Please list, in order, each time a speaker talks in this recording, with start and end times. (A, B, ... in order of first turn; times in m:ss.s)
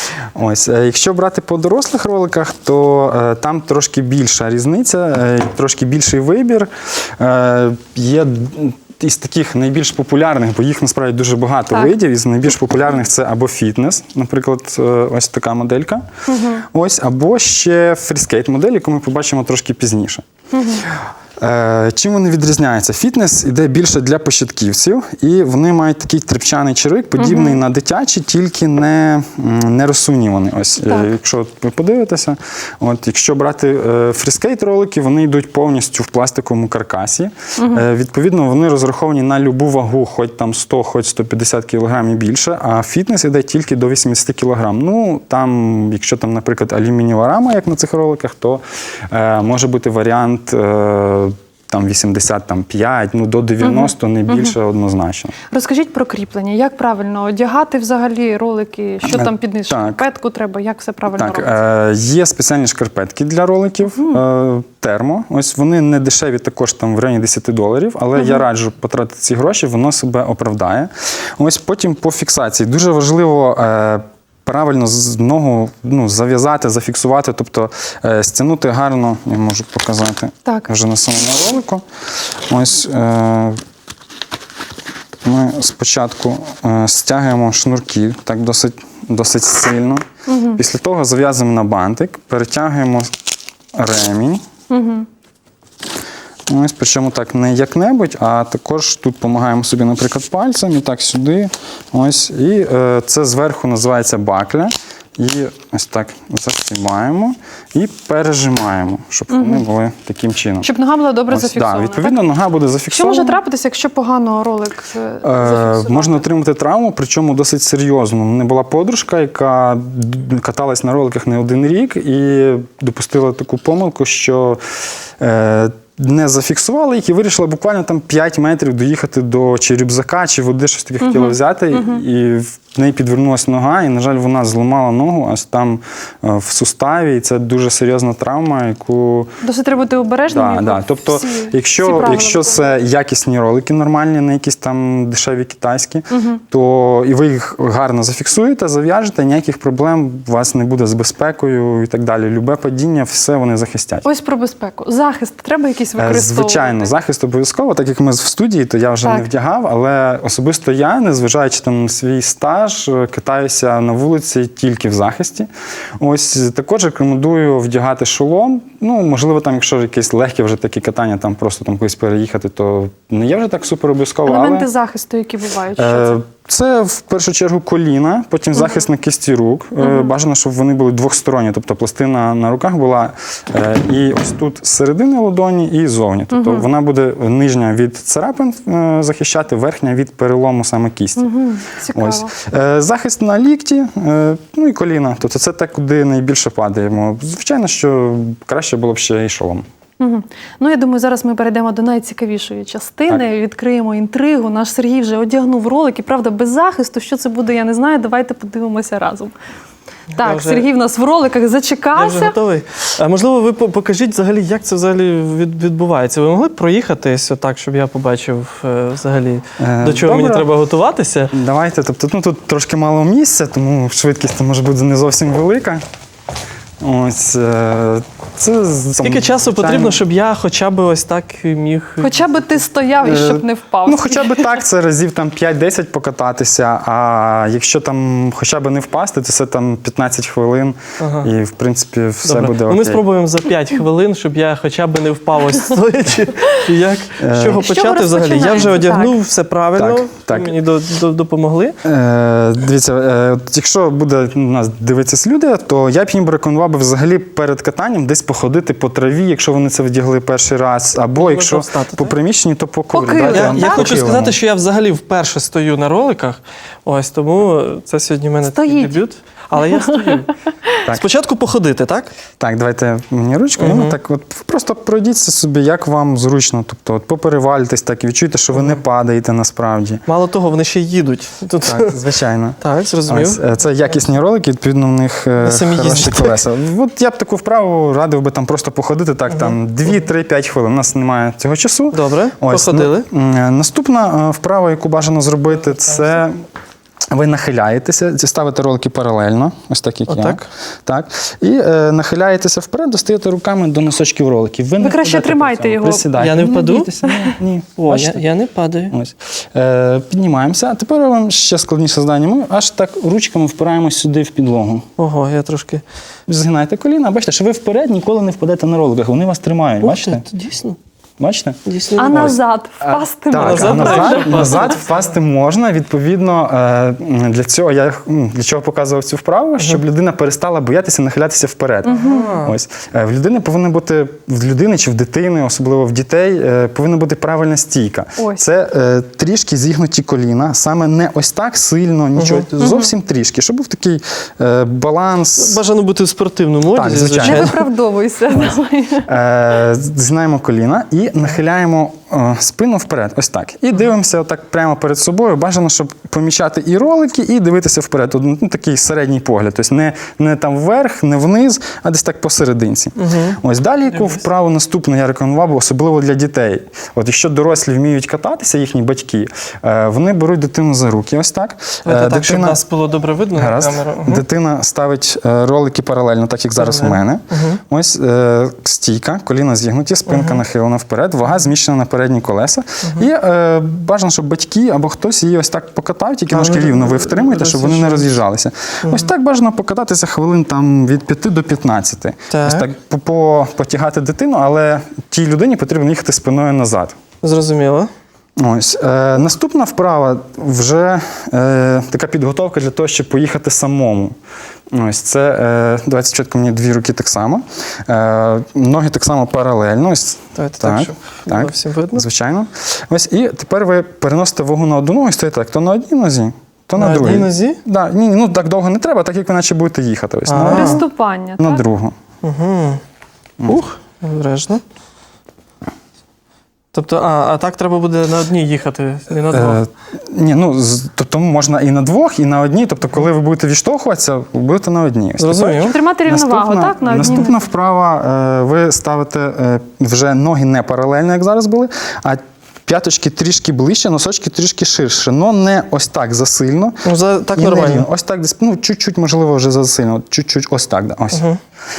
0:00.3-0:16.0 A
0:16.3-0:16.6 B
0:16.7-0:20.2 A
0:20.5-0:20.9 B
0:20.9-0:55.3 A
0:27.2-0:27.6 B
0:37.6-0:37.8 B
0:53.6-0:54.6 B
0:55.5-1:01.5 B
0:59.1-1:00.0 A
1:01.1-1:21.8 A
1:03.9-1:04.2 B
1:08.2-1:08.4 B
1:22.5-1:23.6 A
1:25.2-1:33.1 A
1:30.3-1:30.6 B
1:33.7-1:34.4 A
1:34.7-1:35.1 B
1:36.5-1:50.7 A
1:49.3-1:49.6 B
1:50.6-1:52.2 B
1:51.3-1:53.4 A
1:52.9-1:56.2 B
1:55.2-2:04.6 A
2:05.2-2:19.3 A
2:11.0-2:12.0 B
2:19.4-2:22.8 B
2:20.3-2:34.0 A
2:26.1-2:26.4 B
2:34.0-2:36.9 B
2:36.0-2:54.7 A
2:39.0-2:39.3 B
2:54.2-2:56.2 B
2:55.8-3:11.2 A
2:58.6-2:58.8 B
2:59.8-3:00.1 B
3:06.3-3:06.6 B
3:11.2-3:12.3 B
3:11.9-3:19.6 A
3:20.0-3:29.3 B
3:30.1-3:32.4 B
3:30.2-3:30.7 C
3:32.0-3:41.3 C
3:39.6-3:40.5 A
3:41.3-3:45.8 A
3:46.8-3:50.0 A
3:49.0-3:52.2 C
3:52.0-3:54.5 B
3:53.0-4:03.0 A
4:01.0-4:01.3 C
4:02.2-4:11.8 C
4:07.2-4:07.6 A
4:07.5-4:09.2 B
4:09.8-4:10.5 A
4:11.8-4:24.4 A
4:21.1-4:22.2 C
4:22.9-4:24.1 B
4:23.2-4:30.3 C
4:28.4-4:29.0 B
4:29.6-4:30.2 B
4:30.8-4:32.1 C
4:32.4-4:40.0 A
4:33.6-4:34.0 C
4:38.5-4:38.8 C
4:40.1-4:42.0 C
4:41.6-4:56.4 A
4:42.6-4:43.4 C
4:45.4-4:46.4 C
4:51.9-4:53.1 C
4:55.7-4:56.1 C
4:57.1-5:08.2 A
5:00.1-5:00.4 C
5:04.8-5:06.1 B
5:06.2-5:06.9 C
5:07.0-5:07.3 B
5:07.8-5:08.9 C
5:08.9-5:14.9 A
5:15.0-5:15.8 C
5:16.3-5:20.2 A
5:19.8-5:20.8 C
5:21.2-5:45.6 A
5:21.6-5:22.3 C
5:22.0-5:24.8 B
5:23.3-5:24.8 C
5:31.9-5:32.4 B
5:31.9-5:32.5 C
5:38.2-5:38.4 B
5:42.2-5:42.5 C
5:42.6-5:42.9 B
5:45.4-5:47.6 C
5:46.7-5:47.6 A
5:47.2-5:49.1 B
5:49.0-6:12.6 A
6:03.0-6:03.4 C
6:03.9-6:04.2 C
6:11.8-6:14.2 C
6:13.3-6:37.0 A
6:16.6-6:17.6 C
6:20.1-6:20.4 C
6:26.3-6:28.2 C
6:28.8-6:29.1 C
6:32.3-6:32.7 C
6:37.2-6:37.9 C
6:38.4-6:44.1 A
6:44.7-7:00.9 A
6:50.4-6:52.0 C
6:56.8-6:57.6 C
7:00.3-7:00.8 C
7:00.4-7:01.6 B
7:01.4-7:01.9 A
7:02.2-7:02.8 C
7:03.4-7:04.6 C
7:06.7-7:09.6 C
7:09.3-7:31.3 A
7:15.2-7:15.7 C
7:15.6-7:17.4 B
7:26.8-7:27.9 C
7:31.1-7:31.4 C